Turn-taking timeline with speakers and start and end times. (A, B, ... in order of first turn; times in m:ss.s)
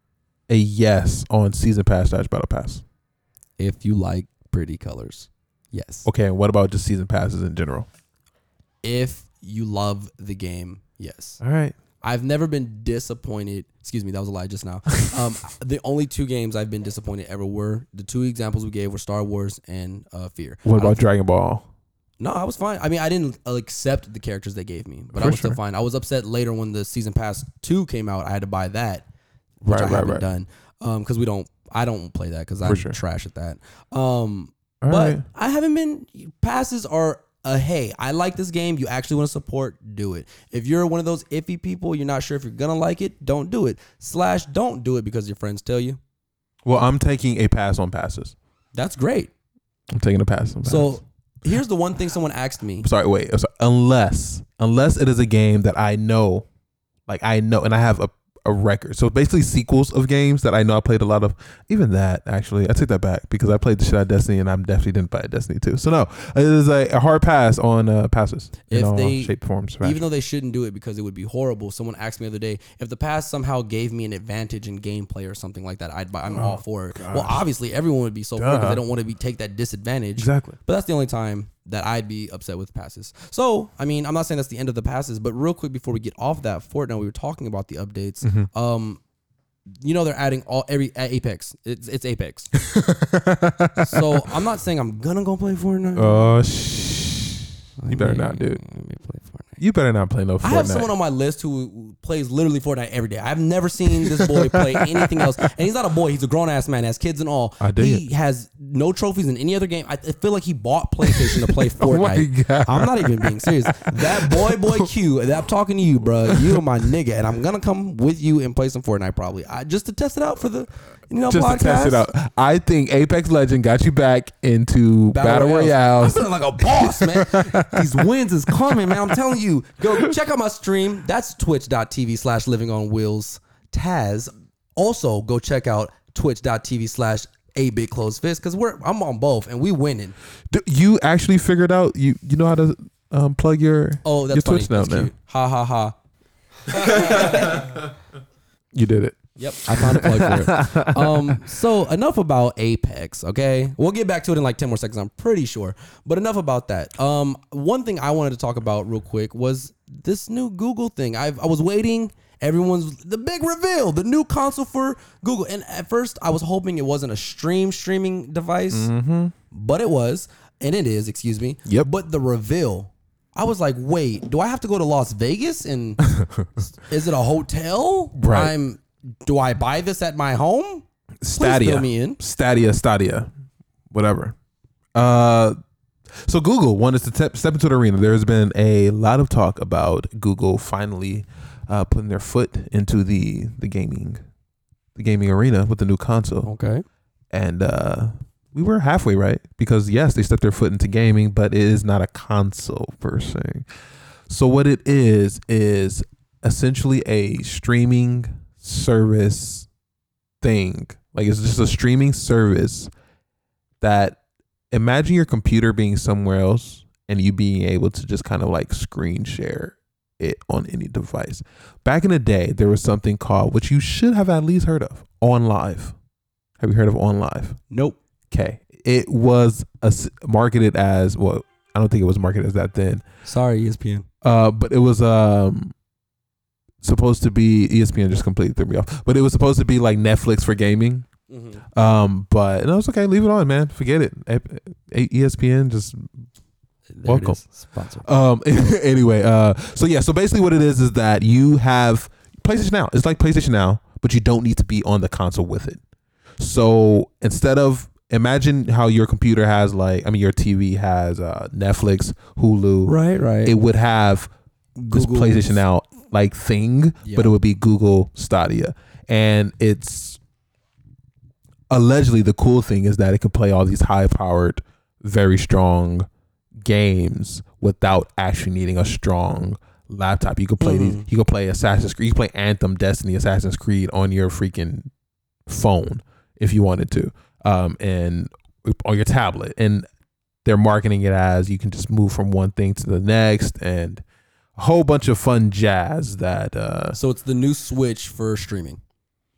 0:00.5-0:02.8 A
0:03.6-0:06.1 B
0:06.0-0:07.9 A
0:08.8-0:11.4 B
0:11.4-0:11.8 A
0:12.0-0:21.0 B
0:20.6-0:21.7 A
0:22.2-0:29.0 B
0:25.1-0:25.6 A
0:29.6-0:46.0 B
0:29.6-0:30.2 A
0:32.6-0:33.0 A
0:34.8-0:35.2 A
0:46.6-0:48.3 A
0:48.7-0:49.3 B
0:49.9-0:51.0 A
0:50.6-0:52.9 B
0:52.8-0:56.4 A
0:57.1-1:10.0 A
1:08.7-1:29.0 B
1:16.3-1:17.4 A
1:18.4-1:18.8 A
1:20.2-1:20.6 A
1:28.2-1:28.5 A
1:29.8-1:32.5 B
1:32.6-1:34.3 A
1:33.8-1:36.3 B
1:36.0-1:38.6 A
1:37.8-1:39.6 B
1:39.6-1:40.9 A
1:40.4-2:02.1 B
1:44.0-1:45.2 A
1:47.6-1:48.0 A
1:51.1-1:54.9 A
1:56.3-1:56.6 A
2:01.3-2:08.0 A
2:05.1-2:20.2 B
2:08.7-2:09.1 A
2:20.5-2:25.1 A
2:24.0-2:25.9 B
2:26.7-2:27.6 B
2:26.8-2:27.7 A
2:28.7-2:31.4 A
2:29.4-2:48.9 B
2:48.7-2:49.3 A
2:49.5-3:02.2 B
2:56.0-2:56.5 A
2:58.2-2:58.5 A
3:01.2-3:03.3 A
3:03.9-3:04.3 A
3:04.9-3:05.6 A
3:06.2-3:14.2 A
3:15.0-3:16.5 A
3:16.4-3:16.8 B
3:17.3-3:23.7 A
3:24.3-3:29.7 A
3:30.4-3:32.9 A
3:33.8-3:34.2 A
3:34.7-3:45.9 A
3:46.6-3:47.6 A
3:47.7-3:48.0 B
3:48.3-3:53.0 A
3:53.2-3:54.1 B
3:54.2-3:55.7 A
3:56.8-4:01.1 A
4:01.3-4:01.6 B
4:01.7-4:06.1 A
4:06.9-4:08.1 B
4:07.0-4:07.4 A
4:08.0-4:15.8 A
4:16.4-4:24.3 A
4:22.8-4:23.5 B
4:24.8-4:25.6 B
4:24.9-4:30.2 A
4:27.0-4:27.3 B
4:31.7-4:44.9 A
4:40.6-4:41.1 B
4:45.5-4:49.9 A
4:50.4-4:54.0 A
4:54.6-4:57.0 A
4:56.9-4:58.8 B